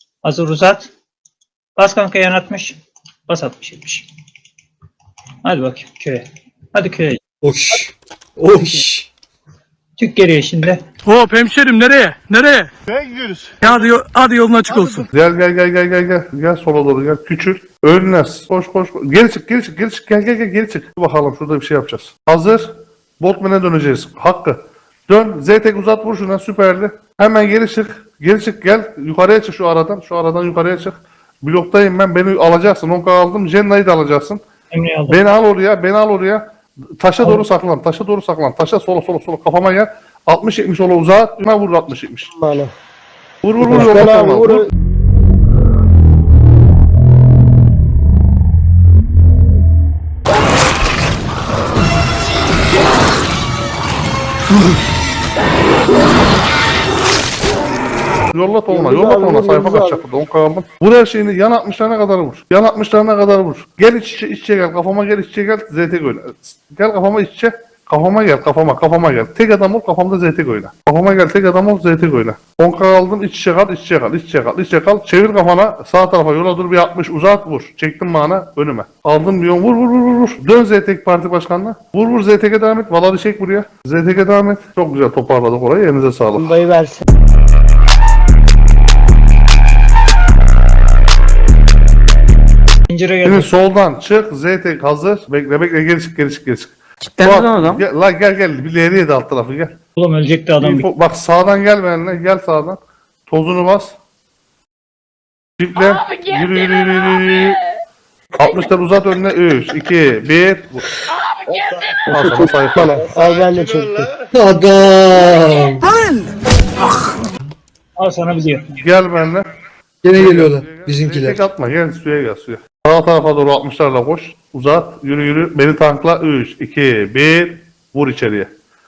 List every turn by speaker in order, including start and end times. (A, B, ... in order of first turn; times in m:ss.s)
0:00.2-0:00.9 A
0:01.8-0:02.8 A
0:03.3-0:04.1 A
0:05.4-0:07.2 A
0:07.4-0:09.1 B
0:10.0-0:10.8 A
0:11.0-0:12.7 C
0:13.6-0:15.1 C
0:15.1-0:34.4 D
0:34.7-0:35.2 A
0:35.1-0:42.4 D
0:42.4-0:42.7 E
0:43.4-0:44.7 D
0:43.6-0:44.7 E
0:58.3-1:26.5 D
0:58.7-1:00.0 E
1:26.4-1:27.0 E
1:32.9-1:33.5 A
1:33.2-1:39.8 D
1:37.2-1:37.8 C
1:40.0-1:40.9 A
1:40.6-1:44.0 D
1:45.6-1:47.6 D
1:48.4-1:50.9 D
1:52.1-1:54.1 E
1:52.1-1:52.9 D
1:54.3-1:55.9 B
1:58.0-1:58.8 A
1:58.8-1:59.5 D
2:00.0-2:01.4 B
2:00.2-2:08.5 D